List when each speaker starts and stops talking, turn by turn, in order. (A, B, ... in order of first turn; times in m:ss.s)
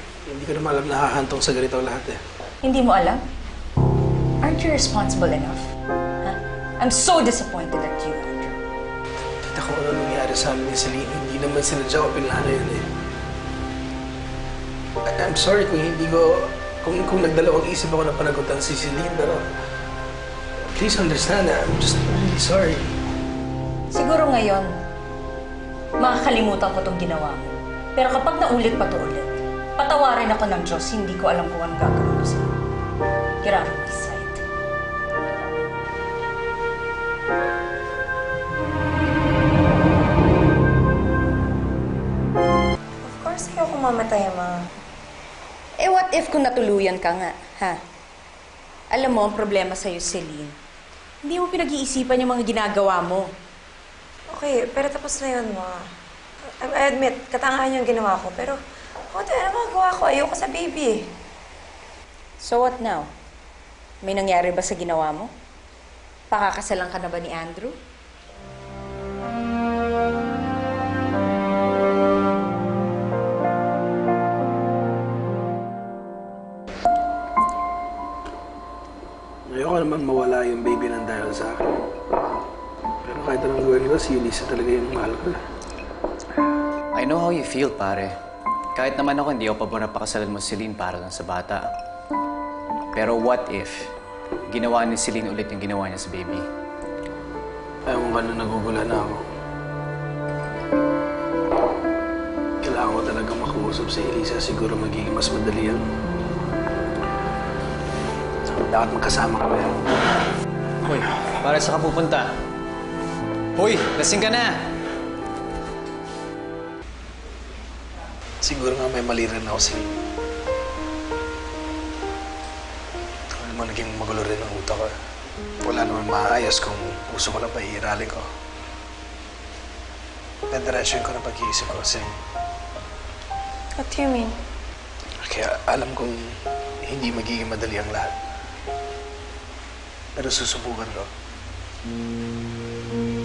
0:00.3-0:02.2 A
0:02.6-0:03.2 B
0:04.4-0:05.7 B
0:06.2-0:08.6 B
0:09.4-0:12.9 A
0:15.1-0:19.5 A
0:20.8-0:23.0 A
0:23.9-0:24.7 B
0:26.0-0:32.5 B
0:33.4-0:34.4 B
0:43.0-0:44.7 C
0:45.8-0:47.8 B
0:48.9-0:50.6 B
0:51.2-0:53.3 B
0:54.3-0:55.9 C
0:56.5-1:01.1 C
1:02.4-1:03.1 B
1:04.0-1:05.3 B
1:06.3-1:07.8 B
1:19.5-1:21.8 A
1:23.0-1:25.4 A
1:26.9-1:28.1 D
1:28.8-1:31.6 D
1:32.9-1:33.7 D
1:34.5-1:36.4 D
1:37.9-1:39.2 A
1:42.6-1:45.9 A
1:48.5-1:49.8 A
1:50.8-1:52.3 D
1:53.6-1:54.6 D
1:58.4-2:00.0 A
2:03.3-2:04.9 A
2:05.6-2:08.3 A
2:10.5-2:12.2 A
2:13.8-2:14.3 C
2:15.2-2:18.2 A
2:20.2-2:21.1 A